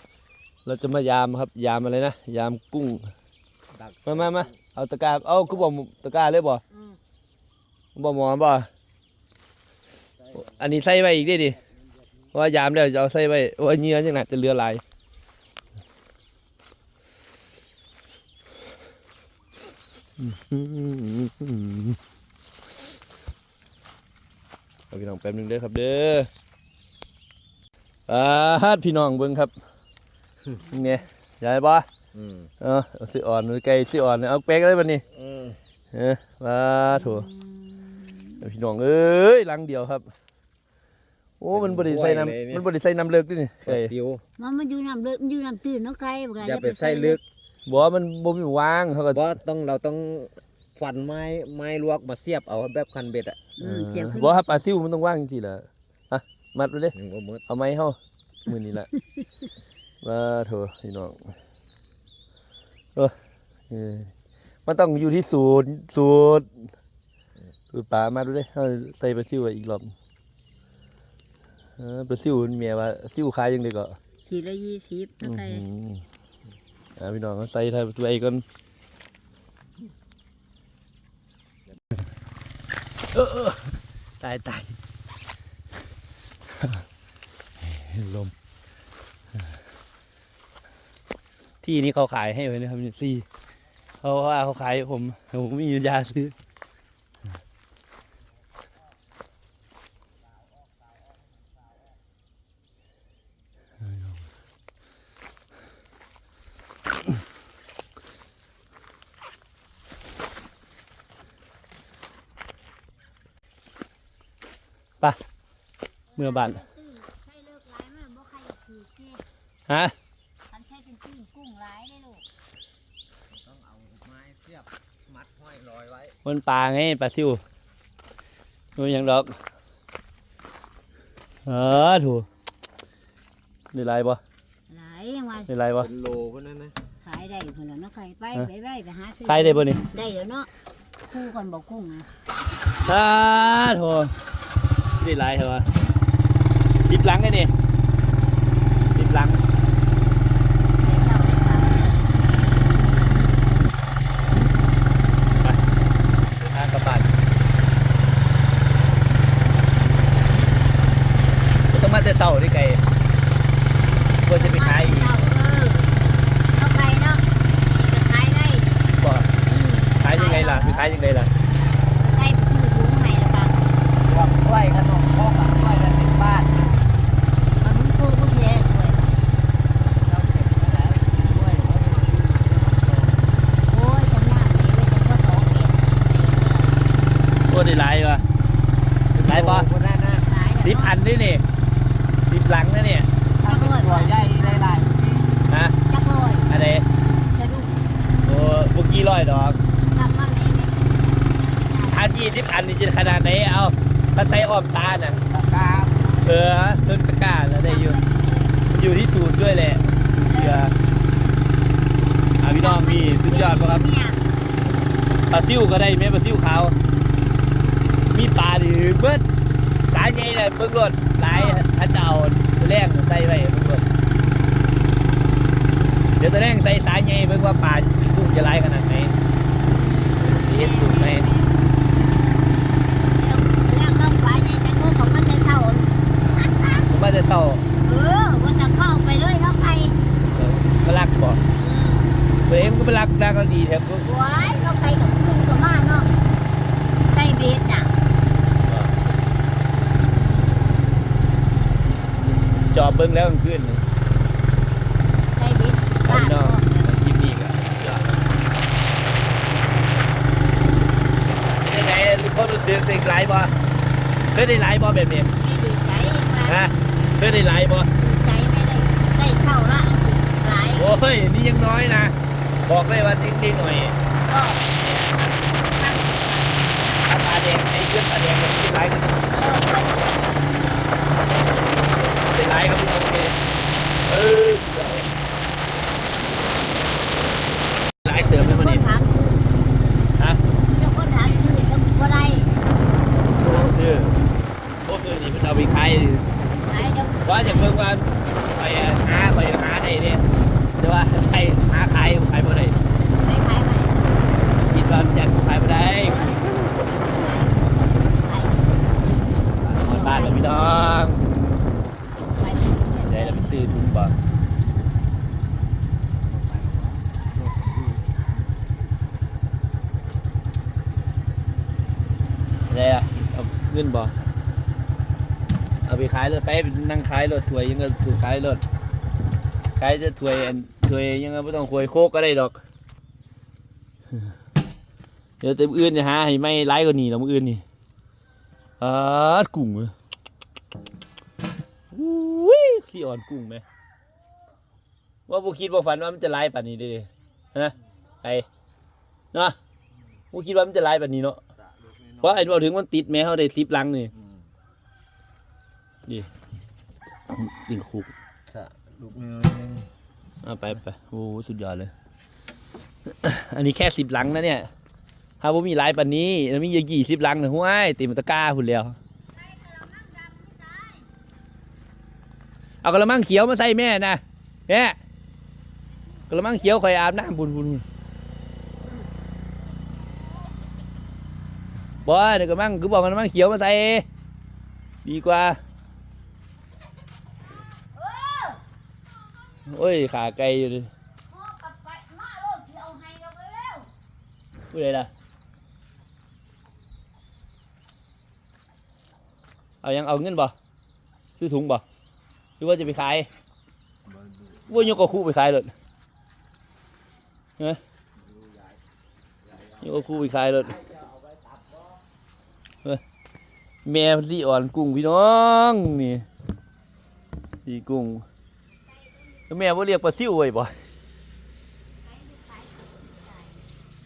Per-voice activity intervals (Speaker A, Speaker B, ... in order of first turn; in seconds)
Speaker A: 0.7-3.1, 4.1-6.6, 8.0-8.7, 10.3-11.6, 12.3-14.8, 20.2-22.0, 24.9-26.3, 28.1-29.5, 30.6-31.9, 32.6-35.0, 35.9-37.3, 38.4-40.1, 41.4-43.9, 47.7-49.2, 53.6-57.0, 57.5-58.9, 60.0-61.4, 63.7-64.1, 64.7-66.5, 67.7-69.9, 71.8-74.0, 75.2-76.0, 77.0-78.4, 83.1-84.8, 87.6-88.3, 91.6-93.3, 94.0-96.3, 103.9-104.2, 116.2-116.6, 119.7-119.9, 126.2-127.4, 128.8-129.3, 131.5-132.3, 133.7-134.2, 135.5-135.9, 139.3-139.8, 142.8-144.1, 145.0-145.7, 146.9-147.5, 148.9-149.4, 156.4-157.1, 161.7-162.8, 164.2-165.1, 169.0-169.3, 170.0-171.3, 187.5-188.2, 189.2-189.7, 190.6-191.4, 192.3-193.1, 195.5-195.8, 196.5-196.8, 198.2-199.6, 201.9-205.2, 206.2-208.0, 208.7-210.7, 212.4-213.8, 215.3-216.8, 218.1-219.2, 219.9-223.9, 226.2-229.2, 230.2-231.3, 236.9-237.6, 240.3-241.4, 242.5-244.1, 248.6-248.9, 252.7-253.8, 256.1-258.2, 261.6-263.5, 264.3-265.3, 266.4-267.9, 270.7-274.0, 274.8-275.1, 277.0-279.2, 282.0-283.4, 284.1-285.1, 288.1-288.9, 293.3-294.1, 294.9-296.3, 297.2-300.2, 300.8-302.8, 304.6-306.2, 309.8-311.2, 313.1-314.1, 322.7-324.1, 325.9-328.6, 329.8-332.6, 335.4-337.6, 338.8-339.9, 341.9-343.6, 345.3-348.5, 350.3-351.4, 352.2-354.1, 357.3-358.1, 360.4-361.9, 363.1-364.7, 365.4-369.0, 372.8-375.0, 376.3-377.9, 382.1-384.1, 385.1-385.6, 389.7-390.9, 394.7-395.1, 399.8-400.6, 401.4-401.8, 402.6-403.3, 404.7-405.7, 409.8-410.8, 413.9-416.2, 417.6-418.2, 419.5-420.8
Speaker B: 3.7-4.6, 32.2-32.5, 35.2-35.6, 41.5-42.6, 43.7-44.2, 46.4-47.2, 49.1-53.4, 56.9-57.4, 123.3-126.1, 135.8-136.8, 174.0-176.7, 180.0-183.3, 189.1-190.3, 193.4-195.4, 205.3-206.3, 316.3-317.8, 351.8-352.3, 358.5-359.9, 408.3-408.8, 410.6-412.0
Speaker C: 36.9-38.4, 44.4-47.2, 53.6-54.6, 74.2-75.7, 116.1-119.2, 120.5-122.3, 134.7-135.5, 137.0-140.5, 141.1-142.1, 150.8-153.2, 164.2-165.9, 166.6-168.8, 169.4-171.0, 172.0-173.6, 177.6-179.1, 183.7-187.0, 190.2-191.0, 193.4-194.8, 195.9-196.5, 197.3-197.8, 199.9-202.1, 207.6-208.7, 210.2-210.7, 212.4-214.2, 221.3-221.6, 229.8-231.6, 233.1-236.9, 237.8-239.9, 241.6-242.2, 244.0-246.1, 247.1-247.9, 255.3-256.9, 265.4-266.7, 267.9-270.9, 274.3-274.7, 275.6-276.7, 279.3-280.2, 288.1-289.5, 290.7-292.6, 296.6-297.8, 303.1-304.4, 305.9-308.8, 309.8-310.9, 312.3-313.6, 369.3-371.1, 387.9-388.6, 391.3-393.9, 418.9-419.5, 422.0-423.6